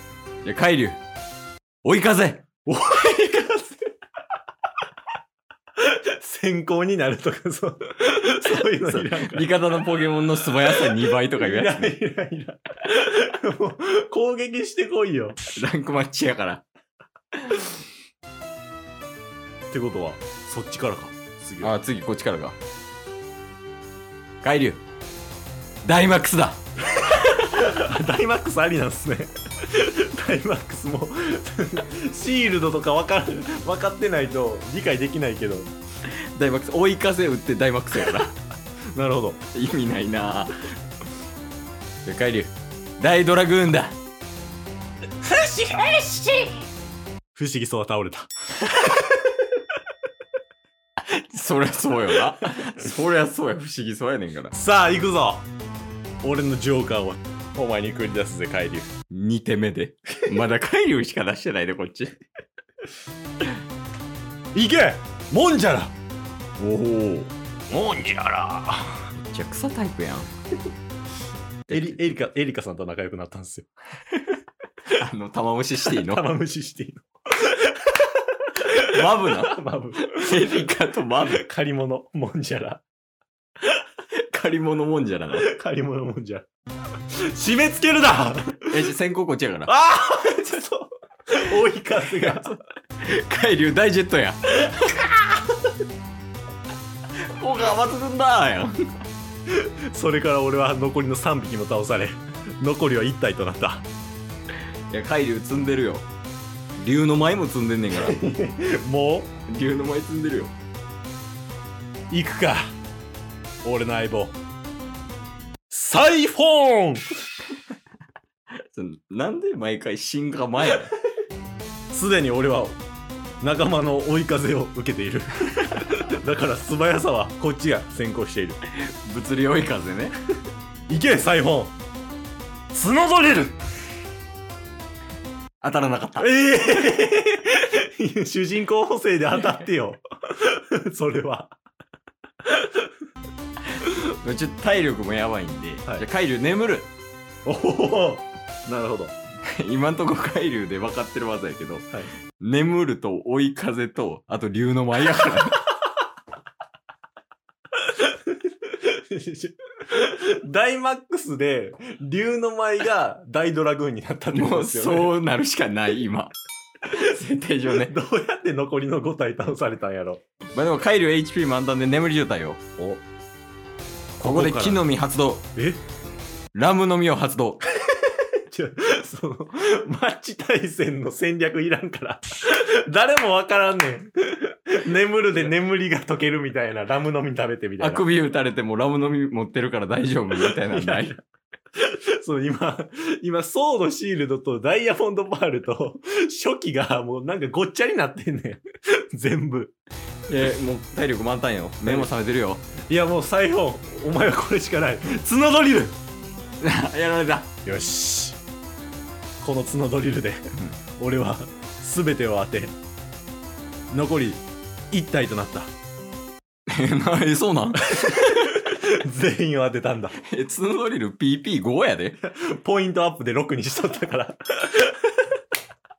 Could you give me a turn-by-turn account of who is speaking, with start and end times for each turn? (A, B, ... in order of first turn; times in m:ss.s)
0:00.4-0:01.0 A
0:01.8-0:03.6 A
0:02.7-0:03.5 B
0:06.0-0:09.5 B
0:08.5-0:12.0 A
0:10.7-0:15.4 B
0:15.5-0:16.6 A
0:19.7-0:21.7 B
0:21.6-0:22.6 A
0:24.4-0:24.8 A
0:25.8-0:26.6 A
0:27.0-0:35.7 B
0:36.1-0:38.4 A
0:38.9-0:39.4 B
0:39.5-0:40.7 A
0:42.0-0:44.0 A
0:45.2-0:46.6 B
0:47.4-0:48.3 B
0:51.0-0:54.6 A
0:54.5-0:55.5 B
0:56.2-0:58.9 B
0:59.1-1:02.2 A
1:04.5-1:05.9 B
1:06.6-1:07.3 A
1:07.7-1:09.1 B
1:09.2-1:10.3 A
1:11.7-1:12.2 A
1:11.7-1:13.7 B
1:14.9-1:16.3 A
1:15.9-1:18.1 B
1:18.7-1:21.4 A
1:19.0-1:20.6 B
1:21.4-1:22.8 B
1:24.3-1:25.5 A
1:25.4-1:26.5 B
1:27.3-1:28.8 B
1:28.7-1:29.7 A
1:29.7-1:32.6 B
1:32.1-1:35.0 A
1:37.3-1:38.8 A
1:39.9-1:43.8 B
1:44.9-1:46.1 A
1:46.8-1:48.2 A
1:47.9-1:49.3 B
1:49.5-1:50.5 A
1:52.1-1:52.7 B
1:53.6-1:54.4 B
1:55.7-1:57.1 B
1:58.6-2:00.9 A
2:01.9-2:02.8 B
2:03.4-2:08.6 B
2:08.7-2:10.2 A
2:10.9-2:11.7 B
2:12.7-2:13.6 B
2:15.6-2:16.3 A
2:16.2-2:21.5 B
2:23.8-2:26.9 A
2:27.5-2:29.2 B
2:29.5-2:31.9 A
2:32.4-2:35.6 A
2:38.7-2:45.2 B
2:44.3-2:47.9 A
2:47.8-2:50.2 B
2:50.5-2:52.6 A
2:54.2-2:55.5 A
2:54.2-2:54.8 B
2:55.6-2:55.8 B
2:56.5-2:57.6 A
2:58.1-3:08.0 B
3:07.8-3:11.1 A
3:10.3-3:11.2 B
3:11.8-3:18.6 B
3:19.1-3:19.7 B
3:20.3-3:22.6 A
3:21.8-3:22.1 B
3:22.9-3:26.0 B
3:26.6-3:27.5 A
3:27.7-3:28.4 B
3:29.4-3:32.8 B
3:33.9-3:35.7 B
3:36.7-3:38.7 A
3:38.0-3:40.2 B
3:40.2-3:42.2 A
3:42.3-3:44.9 B